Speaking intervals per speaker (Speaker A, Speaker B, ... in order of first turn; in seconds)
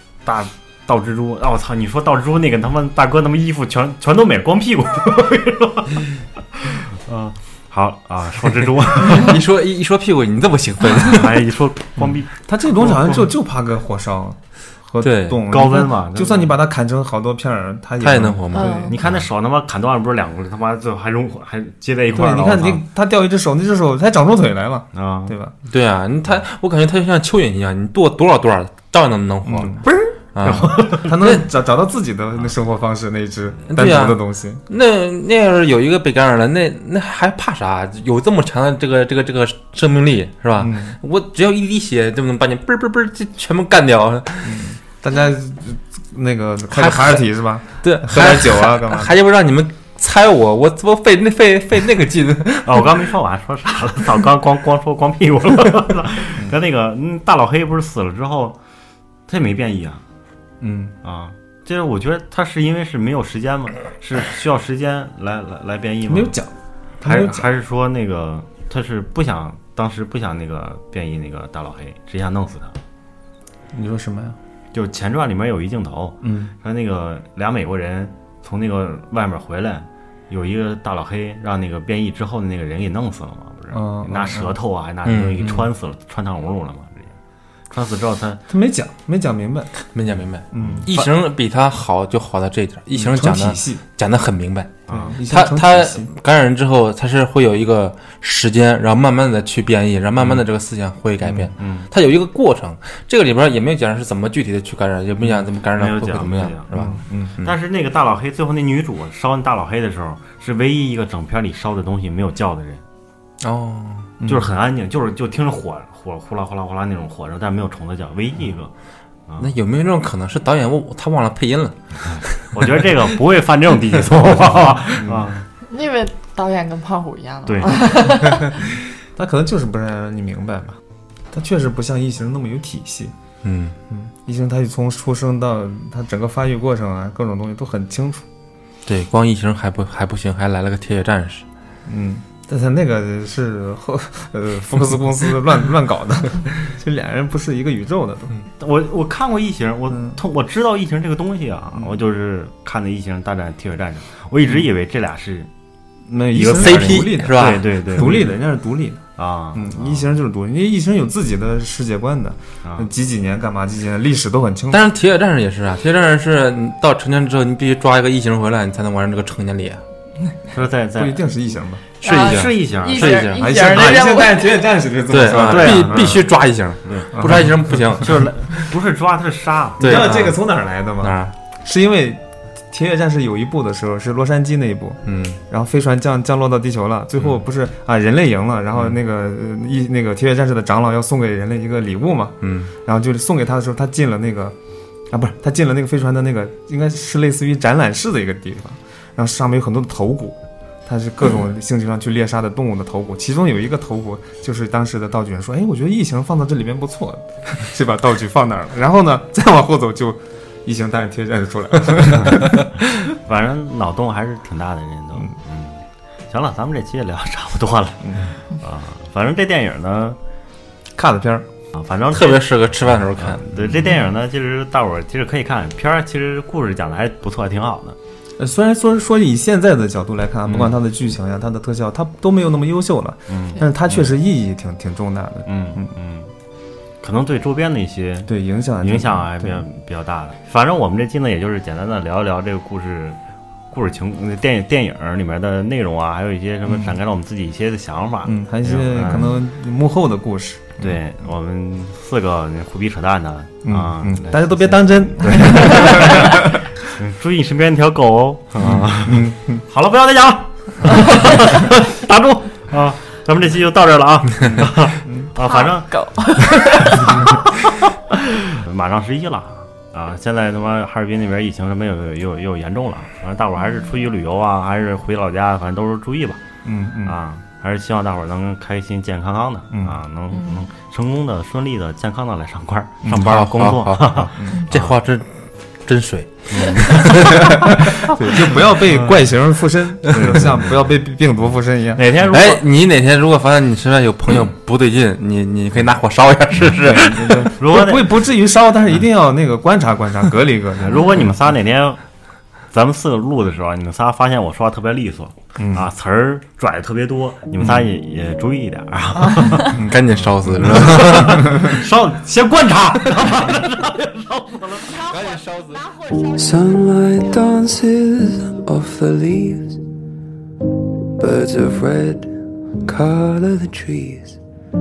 Speaker A: 0.2-9.4, 11.0-13.3, 15.5-16.5, 18.9-22.8, 24.9-25.3, 30.4-31.1, 52.6-58.6, 59.3-60.0, 61.0-66.3, 67.0-72.8, 74.7-87.1, 87.7-88.4, 90.5-91.1, 94.9-95.2, 101.5-101.9, 105.7-106.7, 107.4-112.8, 114.2-118.7, 122.0-125.4, 127.5-127.9, 148.6-155.5, 156.3-158.4, 159.2-160.1, 162.6-162.9, 170.5-171.2, 172.1-173.2, 175.3-176.3, 176.8-177.1, 178.0-180.1, 213.1-220.2, 221.7-222.5, 223.2-228.0, 230.4-230.8, 233.3-234.1, 235.4-236.3, 237.0-243.2, 243.7-249.3, 250.8-265.9, 267.1-267.4, 268.5-276.4, 277.0-285.0, 286.5-287.4, 288.7-289.2, 290.0-291.0, 291.9-292.6, 296.5-298.2, 300.8-302.0, 302.7-309.8, 310.6-315.1
Speaker B: 9.0-11.4, 15.0-15.4, 18.0-19.1, 25.7-29.8, 30.3-31.4, 33.7-44.6, 46.7-47.2, 47.8-53.0, 85.0-85.5, 89.9-107.5, 113.4-114.1, 119.4-121.8, 133.4-133.8, 138.8-141.4, 156.4-157.7, 164.7-169.8, 172.0-173.4, 175.1-178.7, 179.8-180.4, 181.0-181.3, 185.1-185.4, 192.4-192.7, 222.1-223.9, 283.2-288.5, 292.3-297.4, 309.7-311.7, 315.1-315.4
Speaker C: 12.0-19.0, 22.1-25.5, 29.4-34.6, 40.6-41.0, 44.4-49.1, 60.6-60.9, 66.1-67.5, 73.7-74.4, 76.2-76.5, 83.7-84.5, 85.4-85.7, 88.5-89.7, 90.5-90.9, 92.9-93.8, 94.9-96.1, 101.2-101.5, 106.7-107.3, 114.2-114.5, 125.0-125.3, 129.1-130.8, 131.3-133.1, 133.9-138.2, 141.8-148.3, 149.9-150.2, 156.1-159.0, 159.5-164.8, 171.0-171.8, 173.2-176.2, 177.1-178.1, 179.8-194.6, 195.1-212.8, 218.0-218.3, 220.9-221.5, 228.4-235.9, 238.3-239.7, 246.7-246.9, 248.2-251.0, 253.6-256.6, 258.6-259.6, 276.6-277.1, 279.7-280.0, 283.0-283.4, 284.4-284.7, 287.1-292.0, 296.8-301.3, 305.6-305.9, 309.6-311.8
Speaker D: 18.5-18.9, 125.6-128.6, 172.0-174.7, 265.4-267.6, 280.3-280.6, 315.7-316.1
Speaker E: 316.3-319.8, 321.2-324.4